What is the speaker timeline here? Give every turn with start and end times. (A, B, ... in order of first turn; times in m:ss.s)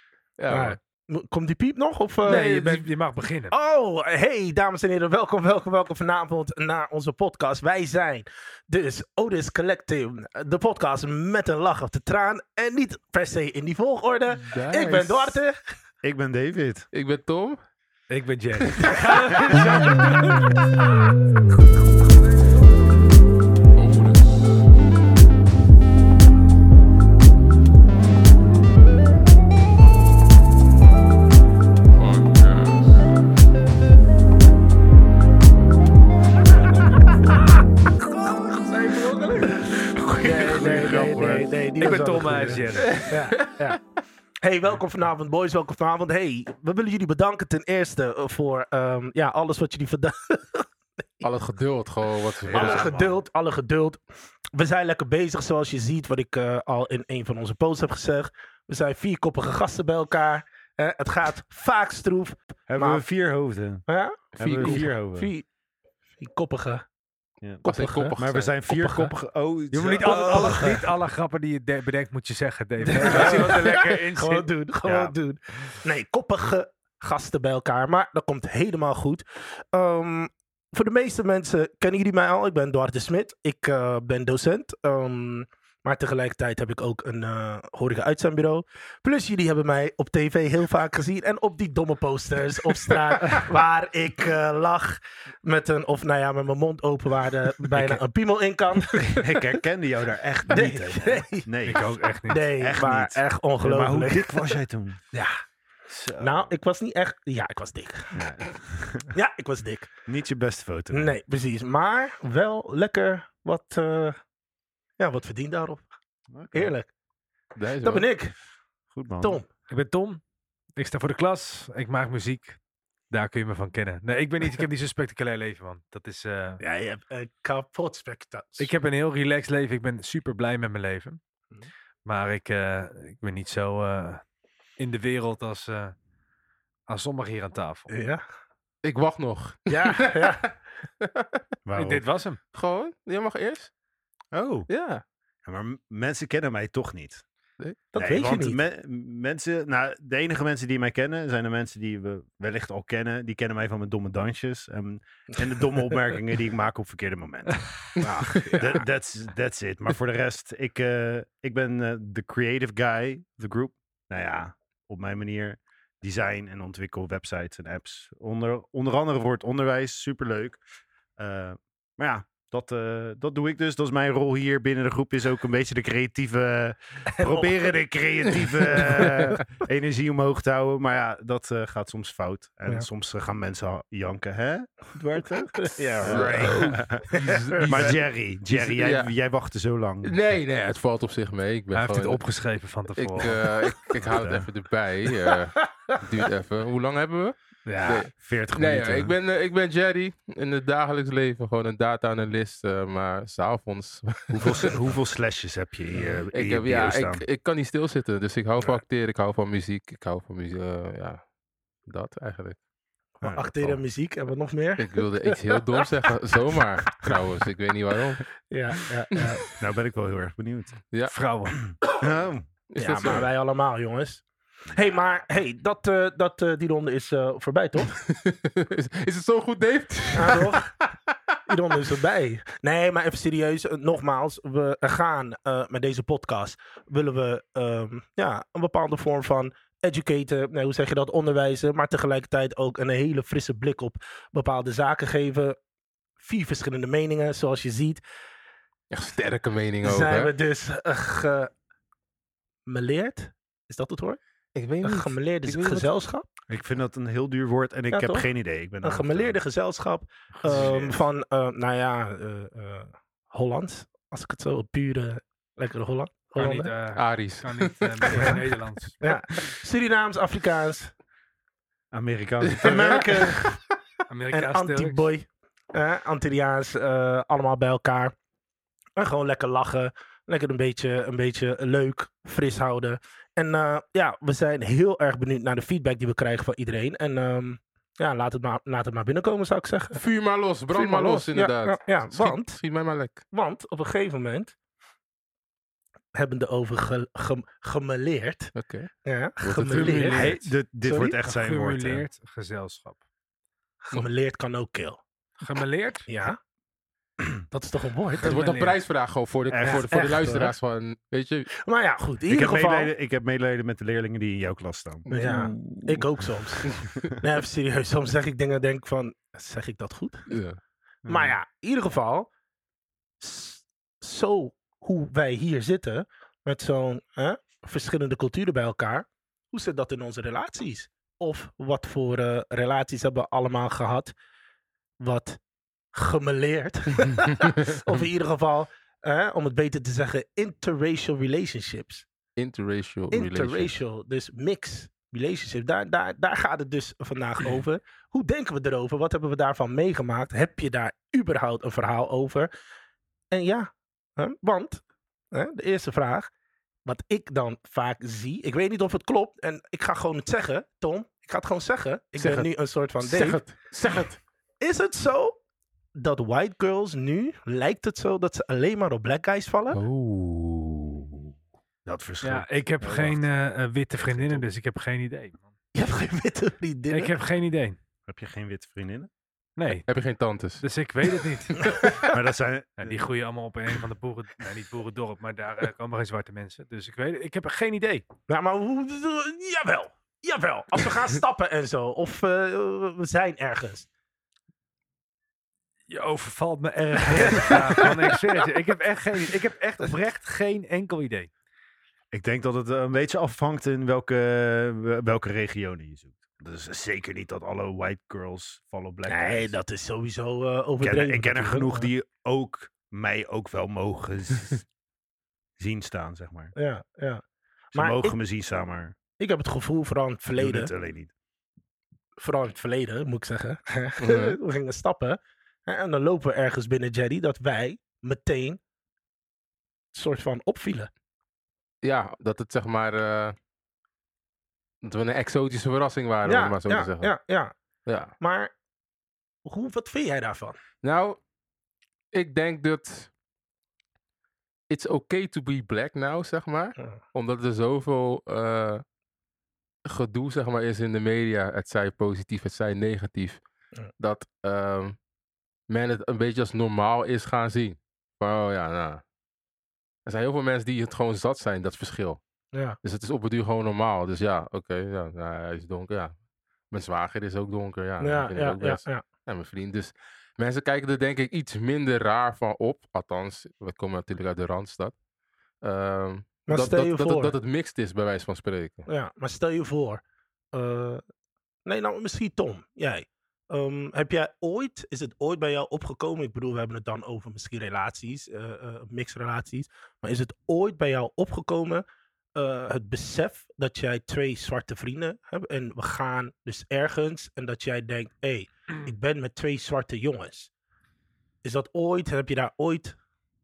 0:00.4-0:00.8 A
0:00.5-0:02.9 B
0:02.2-0:03.5 C
0:03.5-0:15.6 B
0:14.4-0:15.4 A
0:16.0-0:16.9 D
0:16.9-0:17.6 A
0:18.1-0:20.5 C
0:23.7-0:24.4 A
0:32.0-0:33.0 A
0:37.3-0:43.8 B
0:39.8-0:41.5 D
0:41.8-0:43.0 C
0:42.5-0:42.8 D
0:42.8-0:43.8 A
0:44.4-0:50.7 B
0:51.2-0:52.9 A
0:52.4-0:53.2 D
0:52.5-0:54.0 B
0:54.5-1:03.0 B
1:02.7-1:03.8 D
1:03.8-1:05.5 B
1:04.4-1:04.9 A
1:04.4-1:05.3 D
1:06.2-1:06.8 B
1:07.6-1:08.2 B
1:07.7-1:08.6 A
1:08.2-1:10.9 D
1:08.7-1:09.1 B
1:09.7-1:14.5 C
1:10.0-1:10.8 B
1:12.8-1:39.6 B
1:14.8-1:15.1 D
1:37.8-1:38.0 A
1:39.0-1:45.0 D
1:40.5-1:41.5 B
1:41.6-1:42.5 C
1:42.3-1:44.6 B
1:45.1-1:45.4 B
1:45.9-1:46.5 D
1:46.2-1:48.3 B
1:48.2-1:49.1 D
1:49.1-1:49.9 B
1:50.1-1:51.2 D
1:50.9-1:54.2 B
1:55.0-1:55.8 B
1:56.3-1:56.7 D
1:56.5-1:56.9 B
1:57.5-1:58.1 A
1:57.8-1:58.3 B
1:58.9-1:59.4 D
1:59.2-1:59.5 B
1:59.7-2:00.2 C
2:00.8-2:02.6 C
2:03.1-2:06.6 C
2:06.6-2:08.7 B
2:08.6-2:11.2 C
2:12.0-2:14.2 C
2:14.8-2:15.9 C
2:16.9-2:17.9 C
2:17.9-2:18.2 B
2:18.8-2:21.4 A
2:19.7-2:20.5 B
2:21.7-2:22.0 D
2:21.8-2:22.4 C
2:22.5-2:23.7 A
2:24.3-2:24.7 D
2:24.7-2:25.0 A
2:25.4-2:27.2 D
2:27.9-2:28.6 B
2:28.0-2:50.6 D
2:38.0-2:38.8 B
2:51.2-3:10.1 D
2:57.1-2:57.7 B
2:58.5-2:59.4 B
3:05.4-3:07.8 B
3:06.0-3:09.1 A
3:10.0-3:12.2 A
3:11.7-3:13.6 C
3:13.0-3:24.8 A
3:14.0-3:14.5 D
3:15.3-3:16.0 B
3:17.7-3:18.1 B
3:18.2-3:19.1 D
3:24.4-3:27.2 D
3:26.3-3:31.2 A
3:31.8-3:32.6 A
3:33.2-3:35.8 B
3:33.2-3:33.7 D
3:34.8-3:38.2 A
3:38.5-3:39.5 B
3:39.6-3:40.8 D
3:41.1-3:41.6 C
3:41.6-3:42.5 D
3:42.7-3:43.3 A
3:42.8-3:48.0 B
3:48.0-3:50.7 A
3:50.1-3:50.7 B
3:51.5-4:05.6 B
4:06.2-4:08.0 B
4:08.9-4:10.3 A
4:09.8-4:11.5 B
4:12.6-4:14.2 B
4:14.6-4:15.9 A
4:14.8-4:16.2 B
4:16.5-4:19.4 D
4:17.9-4:18.3 B
4:18.8-4:26.7 B
4:20.3-4:21.0 C
4:26.4-4:29.0 C
4:26.9-4:28.4 A
4:28.1-4:28.4 B
4:29.0-4:30.9 B
4:31.9-4:33.6 D
4:32.6-4:33.0 A
4:32.7-4:33.3 B
4:34.1-4:35.1 C
4:34.3-4:38.1 B
4:39.0-4:50.0 B
4:49.9-4:53.2 A
4:50.7-4:52.6 B
4:53.3-4:54.6 B
4:56.1-4:58.5 B
4:58.6-4:58.9 A
4:59.0-5:01.2 B
4:59.4-5:00.4 A
4:59.8-5:00.4 C
5:00.1-5:02.0 D
5:01.2-5:03.0 C
5:03.8-5:05.0 B
5:05.4-5:06.1 C
5:06.1-5:06.4 B
5:07.5-5:08.4 B
5:08.2-5:08.8 C
5:08.2-5:11.5 A
5:09.5-5:09.9 D
5:09.6-5:10.5 B
5:11.6-5:12.9 B
5:12.3-5:17.1 D
5:15.1-5:20.3 B
5:20.3-5:20.6 A
5:21.0-5:21.3 D
5:21.1-5:22.3 B
5:23.2-5:34.1 B
5:35.0-5:35.4 B
5:35.9-5:42.1 B
5:42.4-5:43.7 A
5:43.1-5:52.5 B
5:53.3-5:56.3 B
5:56.8-6:03.4 B
6:02.2-6:04.2 A
6:04.6-6:05.4 B
6:05.9-6:09.8 B
6:09.7-6:11.2 A
6:11.8-6:13.3 D
6:12.2-6:15.5 C
6:13.9-6:14.5 D
6:15.8-6:17.1 B
6:16.9-6:17.8 C
6:18.1-6:19.1 D
6:19.6-6:19.9 C
6:19.7-6:20.6 A
6:20.6-6:21.8 C
6:22.0-6:23.1 D
6:22.8-6:28.0 C
6:28.3-6:33.9 B
6:35.9-6:41.3 C
6:37.1-6:37.9 B
6:42.1-6:49.6 D
6:49.1-6:51.9 B
6:50.8-6:54.6 D
6:55.6-6:56.5 D
6:56.6-6:57.2 B
6:57.7-6:58.2 B
6:57.8-6:59.0 D
6:59.2-7:00.7 B
7:00.4-7:01.1 D
7:02.2-7:08.6 B
7:04.0-7:04.4 A
7:09.9-7:10.9 B
7:11.8-7:13.3 A
7:14.8-7:17.1 A
7:16.2-7:17.5 B
7:17.9-7:18.1 A
7:18.2-7:18.5 B
7:19.4-7:20.6 B
7:20.8-7:21.2 A
7:22.1-7:23.1 A
7:24.7-7:28.8 A
7:29.9-7:33.4 A
7:34.0-7:35.0 A
7:35.7-7:39.0 A
7:40.0-7:42.2 A
7:42.8-7:46.1 A
7:46.7-7:54.9 A
7:48.0-7:49.0 B
7:55.6-7:58.9 A
7:56.5-7:57.3 B
7:58.9-8:00.0 B
8:00.5-8:01.0 B
8:01.6-8:11.8 B
8:12.4-8:20.5 B
8:21.4-8:23.0 B